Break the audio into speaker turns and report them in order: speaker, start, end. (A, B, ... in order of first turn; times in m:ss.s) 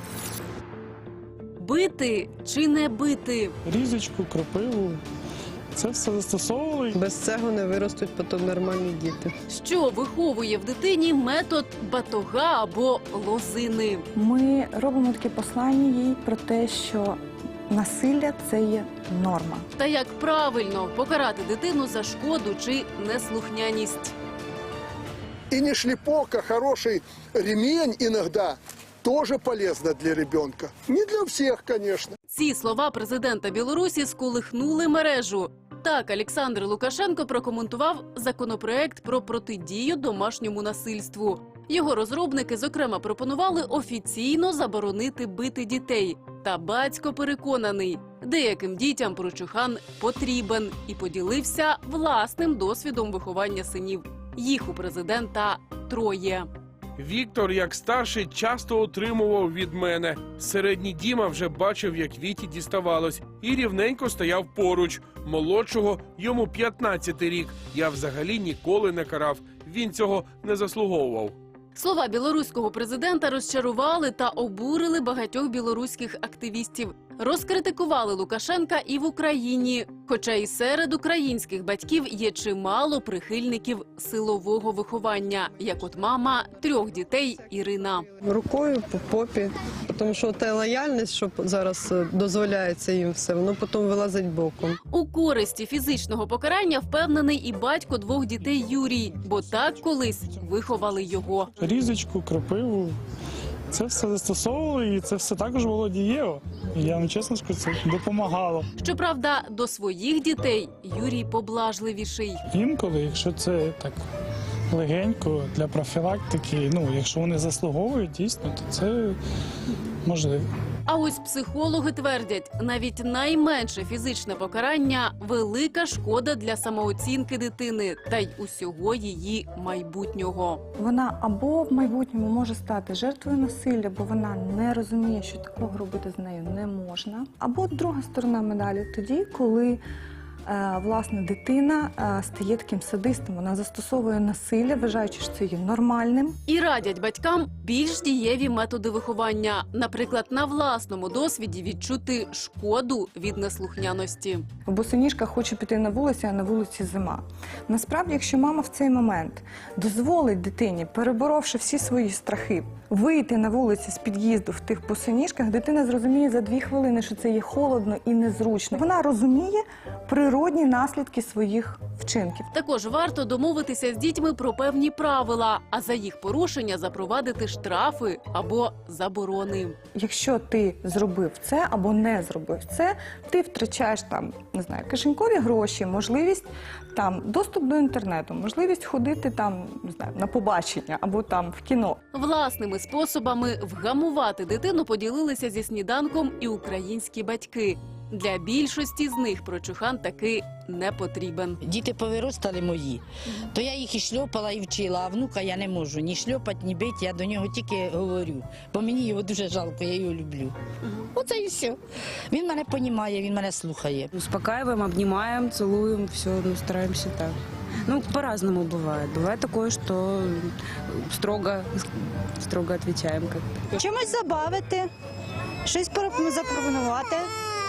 0:01.6-0:03.6 A
0:03.7-0:05.0 B
0:05.7-0:07.0 B
0:07.0-0:09.3 C
0:09.5-0:14.1 A
0:14.2-0:17.2 D
0:17.7-0:19.7 D
0:19.8-0:24.1 A
0:25.5-0:32.2 E
0:32.3-0:56.5 A
0:57.0-1:11.4 F
1:11.8-1:28.1 A
1:28.2-1:34.8 C
1:34.9-1:41.5 A
1:41.6-1:43.0 B
1:43.7-1:48.7 B
1:48.8-1:52.4 A
1:52.5-1:54.0 B
1:54.7-1:59.2 B
2:00.0-2:00.5 B
2:00.9-2:10.6 A
2:10.8-2:19.8 D
2:20.5-2:26.4 D
2:26.5-2:34.4 A
2:34.7-2:52.5 D
2:52.5-2:59.8 A
3:00.0-3:12.0 D
3:12.1-3:21.6 A
3:21.6-3:30.6 G
3:31.1-3:34.1 G
3:34.2-3:41.8 H
3:42.4-3:43.7 H
3:43.8-3:44.9 I
3:45.6-3:47.3 I